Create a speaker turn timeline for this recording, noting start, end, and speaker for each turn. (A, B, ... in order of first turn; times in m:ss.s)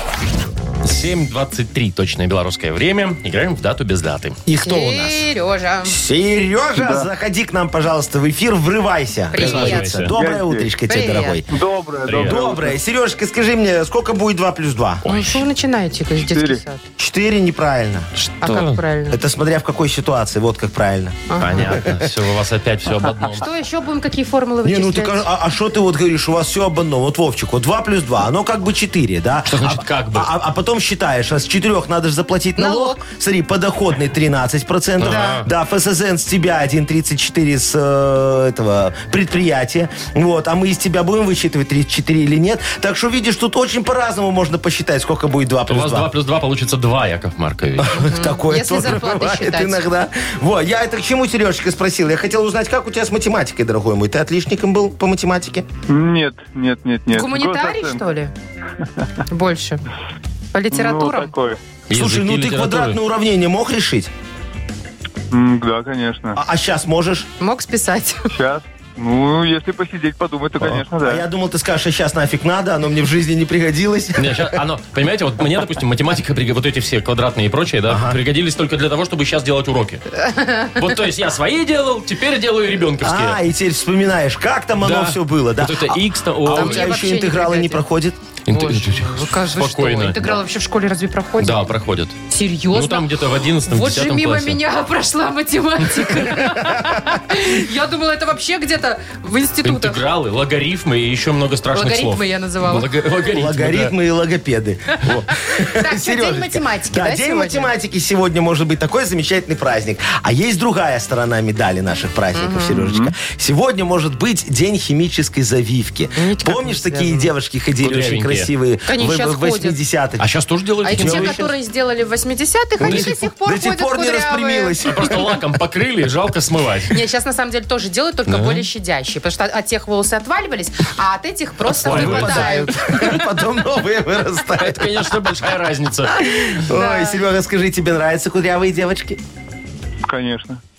0:00.8-0:04.4 A
0:04.5-0:05.2 B
0:04.5-0:06.0 C
0:05.8-0:11.5 B
0:06.8-0:07.1 D
0:09.3-0:10.0 C
0:09.4-0:10.1 A
0:10.1-0:10.8 D
0:10.9-0:11.4 C
0:11.5-0:12.8 D
0:12.1-0:12.4 A
0:12.2-0:15.0 B
0:15.0-0:15.4 A
0:15.0-0:16.8 C
0:16.2-0:16.6 D
0:17.0-0:18.1 B
0:18.2-0:18.8 A
0:18.4-0:19.2 C
0:19.1-0:22.1 B
0:21.3-0:21.8 C
0:21.4-0:23.5 A
0:23.4-0:25.2 C
0:24.6-0:46.1 B
0:29.5-0:30.3 A
0:32.6-0:33.0 C
0:35.0-0:35.5 A
0:35.0-0:35.4 C
0:45.7-0:48.0 A
0:47.8-0:55.7 B
0:47.9-0:49.9 C
0:55.9-0:58.0 D
0:57.1-0:58.3 C
0:59.3-0:59.8 C
1:00.5-1:01.3 C
1:00.7-1:01.6 D
1:01.9-1:03.0 A
1:01.9-1:04.1 B
1:05.3-1:06.4 D
1:06.4-1:07.3 B
1:07.4-1:08.3 C
1:08.3-1:11.2 D
1:10.6-1:14.6 B
1:14.2-1:20.0 A
1:17.9-1:18.2 B
1:20.2-1:20.8 C
1:20.8-1:23.4 A
1:23.0-1:28.2 B
1:24.8-1:26.9 A
1:26.5-1:27.8 C
1:28.5-1:30.3 A
1:28.5-1:31.7 C
1:31.4-1:32.2 A
1:32.3-1:40.0 C
1:32.7-1:34.6 A
1:39.6-1:43.9 A
1:41.7-1:42.9 C
1:43.3-2:00.3 B
1:45.3-1:47.7 C
1:52.4-1:52.8 C
1:52.8-1:53.1 D
1:56.2-1:57.3 C
1:57.8-1:58.5 A
1:58.9-1:59.8 C
2:00.2-2:01.5 A
2:00.8-2:04.8 C
2:00.9-2:01.4 B
2:02.8-2:05.4 B
2:02.8-2:03.1 A
2:04.8-2:07.0 A
2:06.9-2:12.8 C
2:08.3-2:08.7 A
2:11.7-2:15.1 B
2:11.7-2:13.2 A
2:14.6-2:16.2 A
2:16.2-2:19.2 B
2:16.6-2:17.2 C
2:20.1-2:20.6 D